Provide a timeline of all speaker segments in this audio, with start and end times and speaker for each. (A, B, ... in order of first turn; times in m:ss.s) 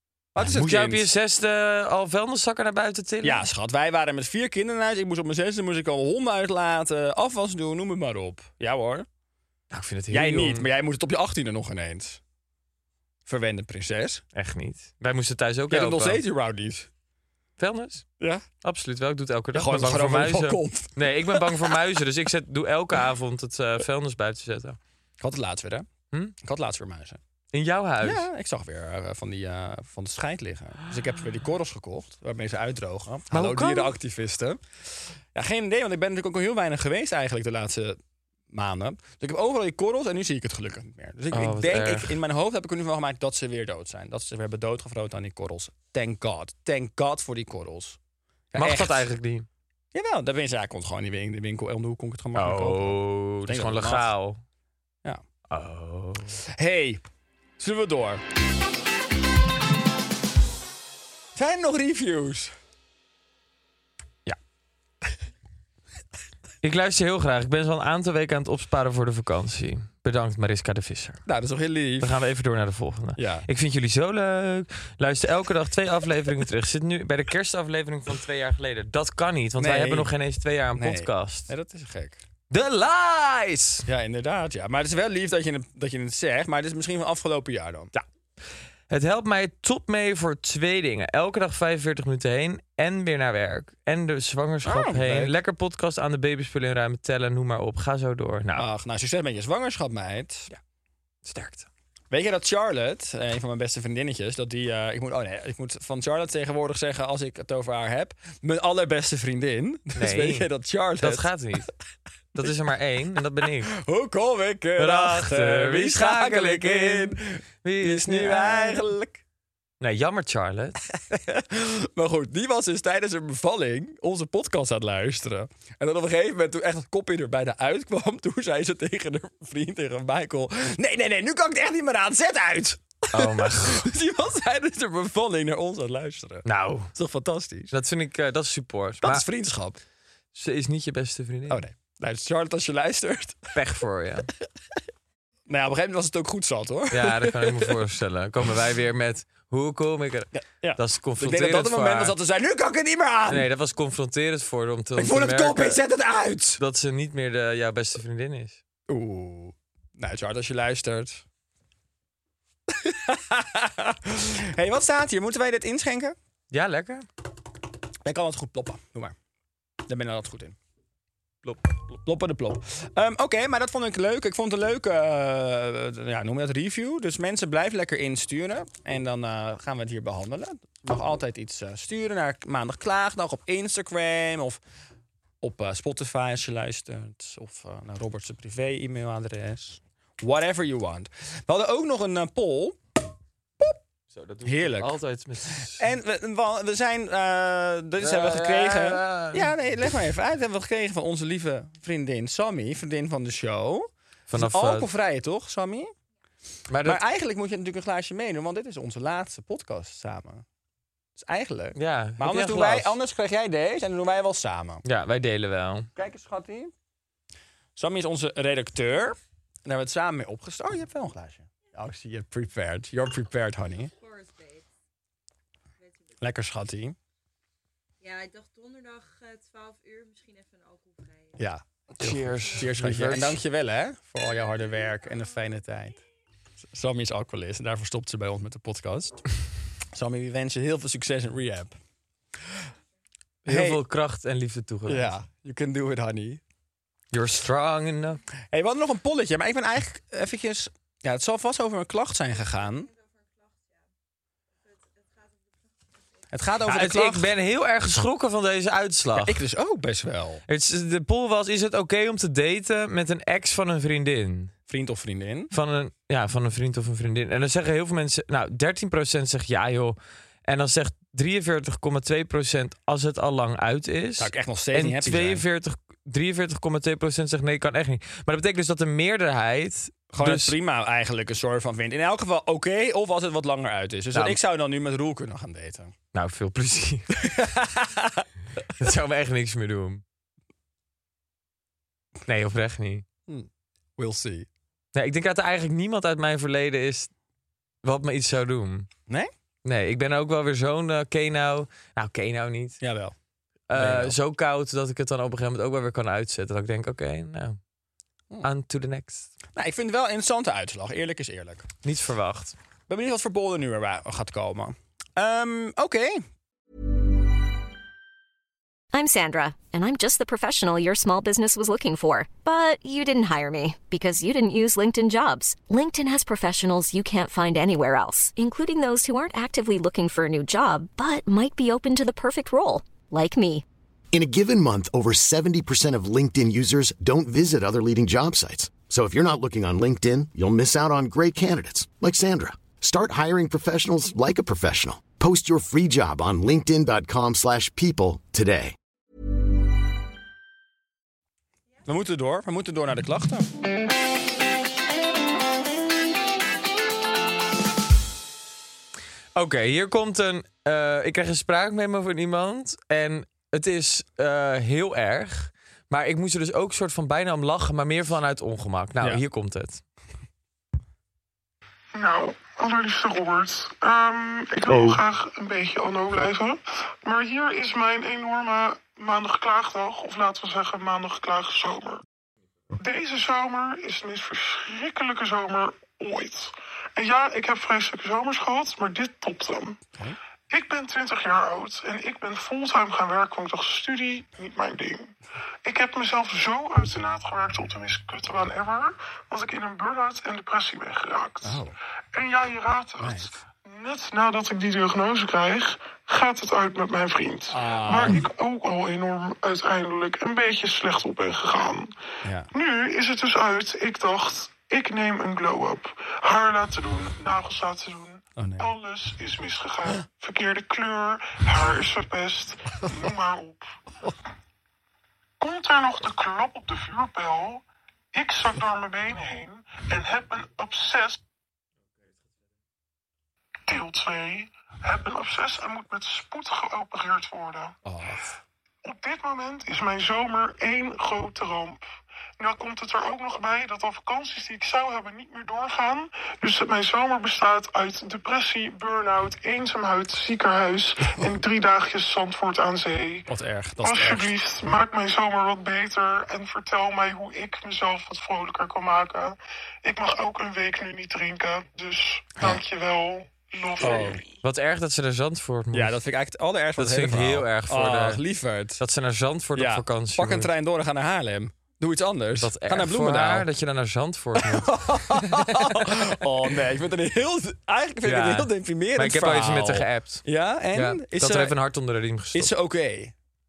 0:00.4-0:01.1 A
0:00.4-0:03.4 B
0:03.2-0:09.1 A
0:09.7-0:10.7 B
0:10.1-0:12.2 A
0:13.3-0:14.2 A
0:14.4-0:16.2 B
0:15.7-0:16.9 A
0:17.6-0:18.1 B
0:18.2-0:18.4 A
0:18.6-0:24.8 B
0:19.5-0:21.8 A
0:25.2-0:25.9 A
0:26.4-0:27.2 A
0:27.5-0:28.3 B
0:28.0-0:34.6 A
0:33.3-0:33.9 B
0:35.3-0:38.0 A
0:38.5-0:48.0 A
0:41.3-0:42.2 B
0:48.5-0:49.1 A
0:48.6-0:49.5 B
0:49.9-0:54.1 A
0:52.4-0:54.4 B
0:55.5-0:56.4 B
0:56.6-0:57.0 A
0:57.6-0:58.2 A
1:01.4-1:02.5 A
1:06.6-1:11.2 B
1:11.3-1:12.2 A
1:12.0-1:21.5 B
1:13.2-1:13.5 A
1:19.6-1:20.1 A
1:20.8-1:22.2 A
1:22.5-1:23.9 B
1:23.9-1:27.9 A
1:28.9-1:38.7 B
1:34.6-1:35.3 A
1:38.6-1:40.5 A
1:41.3-1:41.7 B
1:42.1-1:51.3 A
1:50.0-1:51.7 B
1:52.4-1:53.8 B
1:53.7-1:59.2 A
1:54.8-1:58.9 B
1:59.8-2:00.8 B
2:01.0-2:17.7 A
2:13.1-2:13.9 B
2:16.4-2:16.9 B
2:17.7-2:19.3 B
2:19.0-2:19.8 A
2:20.3-2:21.6 B
2:21.5-2:23.5 A
2:23.6-2:24.3 B
2:25.5-2:27.8 A
2:26.9-2:32.2 B
2:30.4-2:33.5 A
2:33.3-2:35.8 B
2:35.0-2:36.6 A
2:36.6-2:38.6 B
2:38.9-2:41.2 A
2:42.7-2:46.2 A
2:46.5-2:47.1 B
2:48.0-2:49.2 A
2:49.9-2:50.6 A
2:52.0-3:04.6 A
3:05.4-3:12.8 A
3:14.1-3:15.9 B
3:14.4-3:15.0 A
3:15.5-3:25.9 A
3:18.0-3:19.5 B
3:24.3-3:24.9 B
3:26.7-3:27.0 B
3:26.8-3:30.4 A
3:31.2-3:34.8 A
3:31.8-3:33.0 B
3:34.8-3:35.9 B
3:36.0-3:36.7 A
3:37.8-3:43.9 A
3:43.9-3:44.7 C
3:45.8-3:46.2 C
3:46.2-3:47.0 A
3:48.0-3:51.4 C
3:51.4-3:56.0 A
3:52.0-3:53.4 B
3:56.7-3:59.2 A
3:59.9-4:01.8 A
4:03.5-4:03.8 A
4:03.5-4:05.1 B
4:04.9-4:06.4 A
4:07.1-4:08.2 B
4:08.5-4:12.9 A
4:12.4-4:13.8 C
4:14.7-4:15.4 C
4:16.3-4:17.3 A
4:16.7-4:19.4 B
4:19.2-4:20.4 A
4:20.5-4:24.5 B
4:24.7-4:25.5 A
4:25.5-4:40.6 B
4:34.2-4:35.4 A
4:40.1-4:45.9 A
4:44.1-4:44.4 B
4:46.1-4:47.3 B
4:47.2-4:48.3 A
4:48.8-4:50.0 B
4:52.3-4:53.0 B
4:53.3-4:54.5 A
4:54.9-4:57.1 B
4:57.8-4:58.9 B
4:59.6-5:02.8 B
5:02.8-5:03.2 A
5:03.7-5:07.6 B
5:03.7-5:04.2 A
5:08.4-5:09.3 B
5:09.6-5:11.7 A
5:11.8-5:12.6 B
5:12.9-5:16.2 A
5:18.9-5:33.6 D
5:34.1-5:48.8 E
5:51.9-5:53.5 A
5:59.4-6:09.8 B
6:12.0-6:22.0 F
6:22.8-6:29.8 F
6:30.5-6:35.1 F
6:35.6-6:41.6 F
6:41.4-6:41.8 A
6:42.1-6:51.9 F
6:43.0-6:43.3 A
6:47.5-6:48.3 A
6:52.2-6:52.5 A
6:52.5-7:03.7 F
6:58.4-6:58.7 A
7:05.4-7:11.2 F
7:13.7-7:17.8 F
7:17.8-7:18.3 A
7:18.8-7:21.8 F
7:22.4-7:33.3 F
7:33.3-7:34.3 A
7:33.8-7:44.3 F
7:43.8-7:44.2 A
7:44.4-7:46.0 B
7:45.7-7:48.8 A
7:46.8-7:48.2 B
7:48.8-7:50.5 B
7:49.6-7:53.5 A
7:52.4-7:56.1 B
7:54.4-8:01.6 A
7:58.0-8:02.5 B
8:02.3-8:03.1 A